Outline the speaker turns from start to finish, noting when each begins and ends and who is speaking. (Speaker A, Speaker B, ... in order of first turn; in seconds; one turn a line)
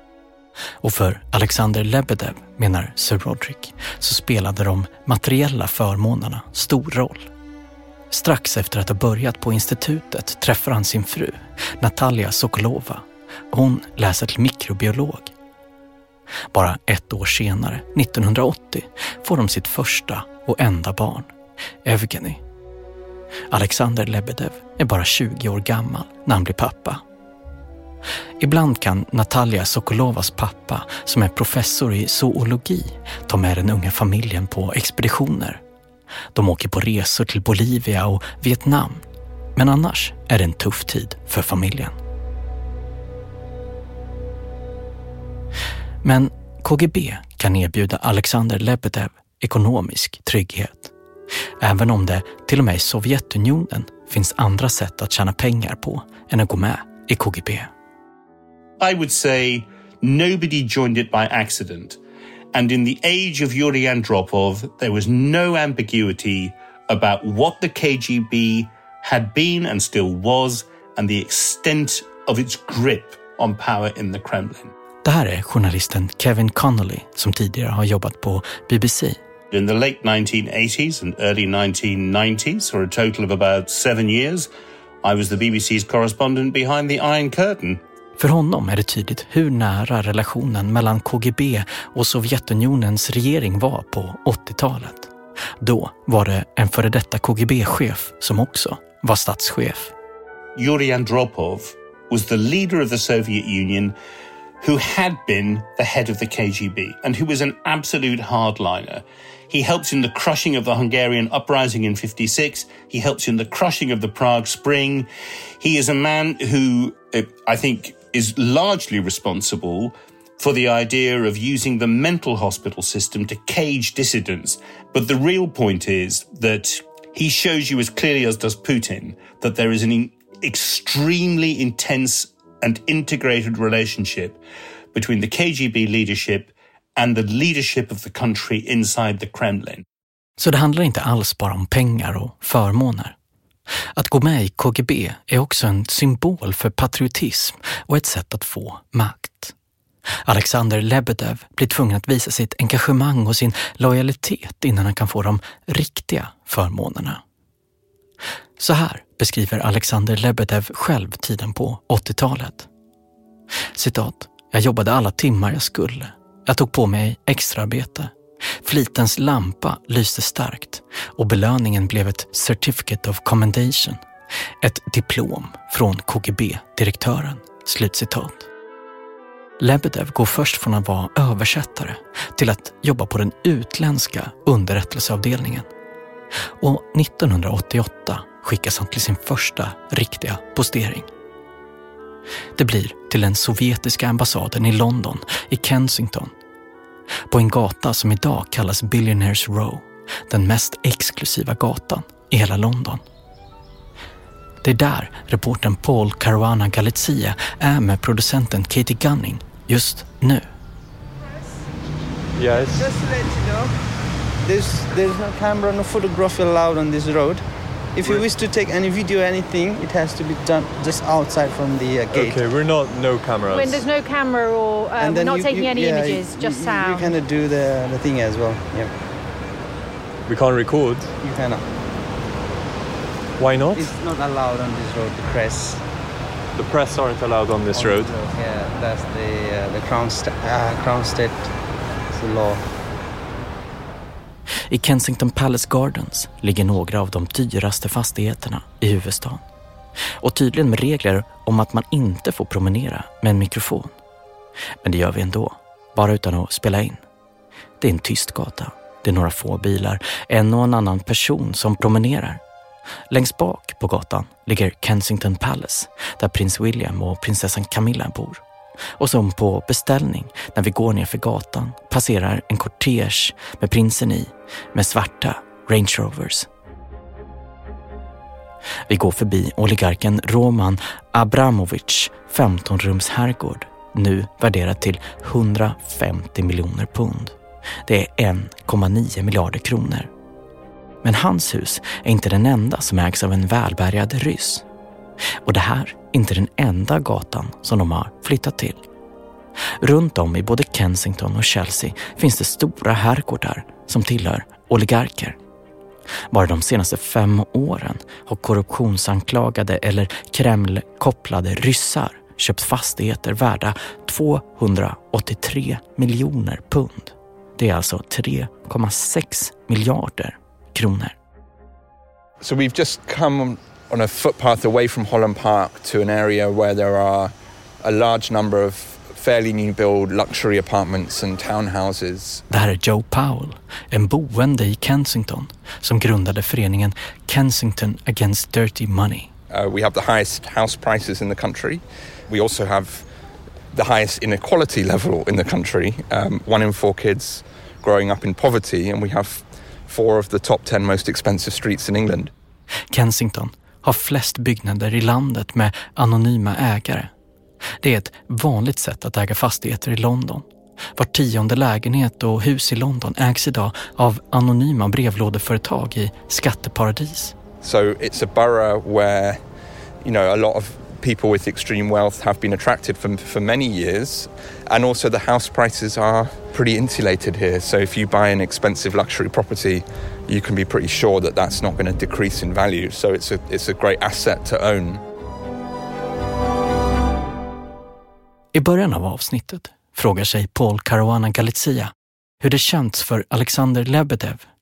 Speaker A: 0.8-7.3
Speaker A: 8.1-15.3
Speaker A: 16.5-21.3
Speaker A: 21.8-22.4
Speaker A: 23.5-27.0
Speaker A: 28.4-35.6
Speaker A: 36.3-39.0
Speaker A: 39.5-42.0
Speaker A: 46.0-50.9
Speaker A: 51.6-57.7
Speaker B: 58.8-62.0
Speaker B: 62.5-74.7
Speaker A: 75.0-79.2
Speaker B: 79.5-84.5
Speaker B: 85.0-87.8
Speaker A: 88.2-99.9
Speaker B: 100.5-103.9
Speaker B: 104.6-115.1
Speaker B: 115.6-134.4
Speaker B: 134.9-139.8
Speaker A: 140.4-143.1
Speaker A: 144.0-149.5
Speaker A: 150.2-157.2
Speaker A: 158.6-162.7
Speaker A: 163.7-168.1
Speaker A: 168.6-174.0
Speaker A: 174.6-178.5
Speaker A: 179.6-185.7
Speaker A: 186.6-191.1
Speaker A: 192.6-196.3
Speaker A: 197.3-203.0
Speaker A: 204.6-210.5
Speaker C: 212.4-212.9
Speaker D: 212.5-213.7
Speaker D: 214.4-217.4
Speaker D: 217.9-222.4
Speaker C: 222.1-223.8
Speaker E: 223.5-227.2
Speaker D: 225.0-228.9
Speaker C: 230.3-231.1
Speaker D: 231.2-231.7
Speaker C: 233.4-233.9
Speaker D: 233.7-235.8
Speaker C: 236.5-238.1
Speaker D: 237.7-241.5
Speaker D: 242.1-242.7
Speaker A: 244.7-249.4
Speaker A: 250.2-253.9
Speaker A: 254.8-257.0
Speaker A: 257.8-262.4
Speaker A: 263.1-268.4
Speaker A: 269.0-276.5
Speaker A: 278.9-287.3
Speaker A: 287.9-290.1
Speaker A: 291.0-294.6
Speaker A: 295.4-298.8
Speaker A: 299.8-305.4
Speaker A: 306.3-321.1
Speaker F: 322.4-332.4
Speaker A: 332.5-339.3
Speaker F: 339.5-343.1
Speaker F: 343.7-352.3
Speaker A: 352.9-357.1
Speaker A: 357.8-360.4
Speaker A: 360.9-367.3
Speaker F: 367.6-369.4
Speaker F: 370.0-385.0
Speaker A: 388.5-394.4